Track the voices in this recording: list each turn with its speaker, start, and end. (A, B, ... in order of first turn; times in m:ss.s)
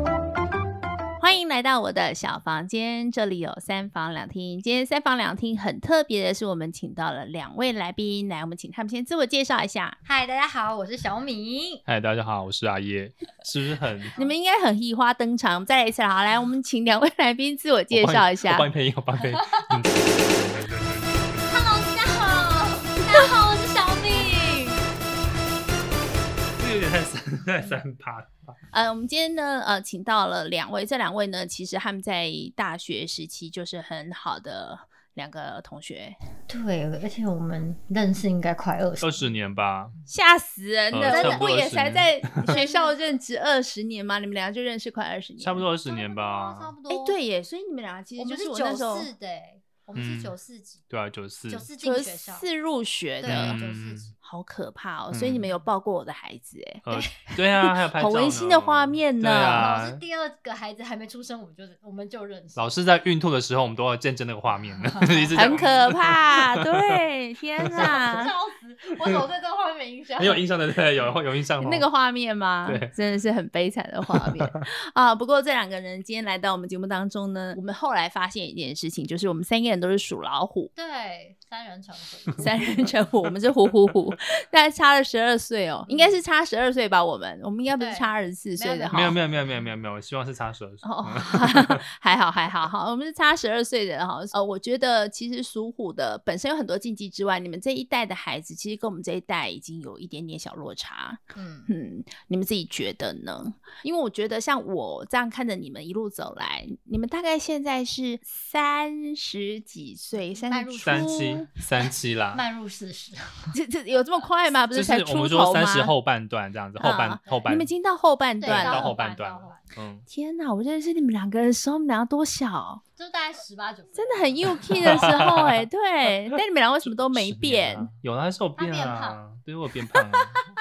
0:01.2-0:10.0 A
0:10.1-0:11.8 B
0:11.9-0:14.1 C
0:14.2-0:18.7 A
0:17.9-0:21.6 C
0:19.2-0:19.6 B
0:21.5-0:24.9 B
0:26.6-0:28.5 C
0:28.7-0:36.2 A
0:36.5-0:39.2 B
0:39.0-0:39.9 C
0:40.1-0:45.7 A
0:40.9-0:42.5 C
0:41.1-0:41.8 B
0:42.5-0:43.0 B
0:45.4-0:46.7 C
0:45.9-0:47.2 B
0:46.9-0:49.1 A
0:48.2-0:50.8 B
0:50.0-0:50.4 C
0:50.9-0:51.7 C
0:51.5-0:52.5 B
0:51.8-0:53.6 A
0:53.2-0:54.1 B
0:53.3-0:54.1 C
0:54.2-0:56.8 A
0:55.1-0:55.4 C
0:56.8-1:00.0 C
0:57.6-0:59.7 A
0:59.5-1:02.6 B
1:02.6-1:07.0 C
1:04.7-1:05.7 B
1:05.4-1:08.3 A
1:07.6-1:08.0 C
1:07.7-1:10.4 B
1:10.2-1:11.9 C
1:11.6-1:20.7 A
1:12.7-1:12.9 C
1:14.1-1:14.6 C
1:20.8-1:22.5 B
1:22.4-1:29.2 A
1:25.9-1:26.2 B
1:27.8-1:29.6 B
1:28.9-1:31.8 C
1:30.8-1:51.5 A
1:41.4-1:41.7 B
1:50.4-1:54.6 B
1:50.8-1:52.4 C
1:53.5-1:55.9 A
1:54.7-1:57.7 C
1:56.8-1:58.9 A
1:58.4-1:59.6 B
1:58.5-2:00.1 C
2:00.1-2:02.8 A
2:03.0-2:05.1 B
2:04.0-2:07.9 A
2:04.7-2:05.7 C
2:06.9-2:10.4 C
2:08.6-2:09.2 B